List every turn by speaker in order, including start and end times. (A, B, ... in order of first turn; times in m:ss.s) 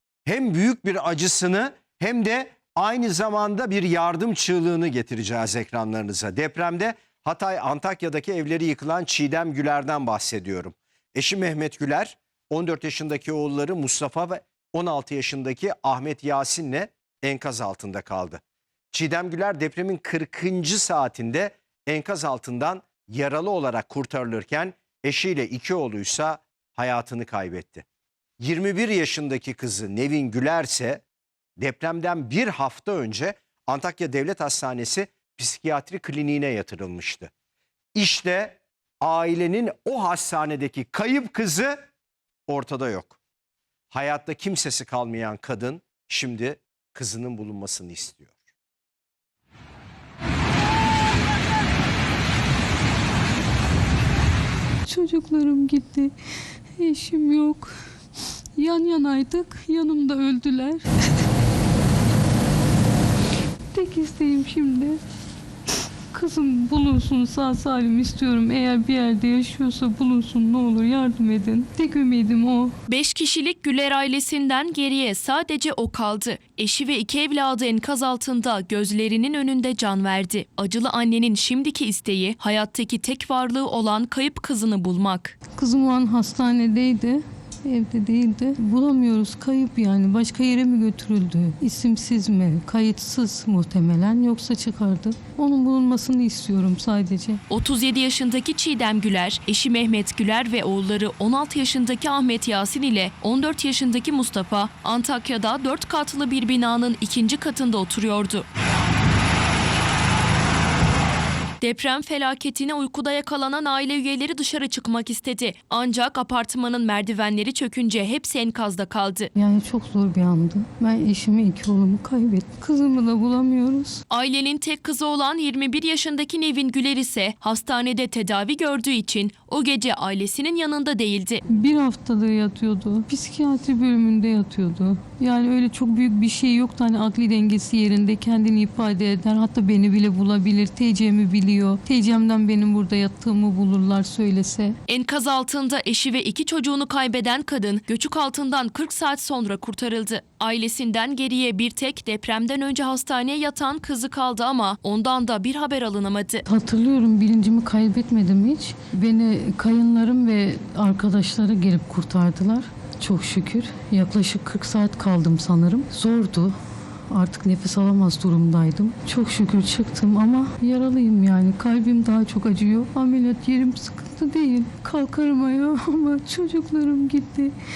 0:00.3-0:18.4 A
0:18.9-0:27.8 A
0:28.4-0:31.0 A
0:31.6-0:37.3 A
0:38.0-0:41.8 A
0:42.5-0:43.2 A
0:43.9-0:48.3 A
0:54.9-0:56.1 B
0:56.8-0:57.7 B
0:58.6-1:00.8 B
1:03.7-1:05.0 B
1:06.1-1:12.8 B
1:12.9-1:25.4 C
1:25.6-1:37.4 B
1:37.5-1:48.5 C
1:51.6-1:59.3 C
1:59.4-2:04.0 B
2:04.1-2:11.4 C
2:11.5-2:24.8 B
2:24.9-2:36.4 C
2:36.4-2:46.6 B
2:47.1-2:57.5 B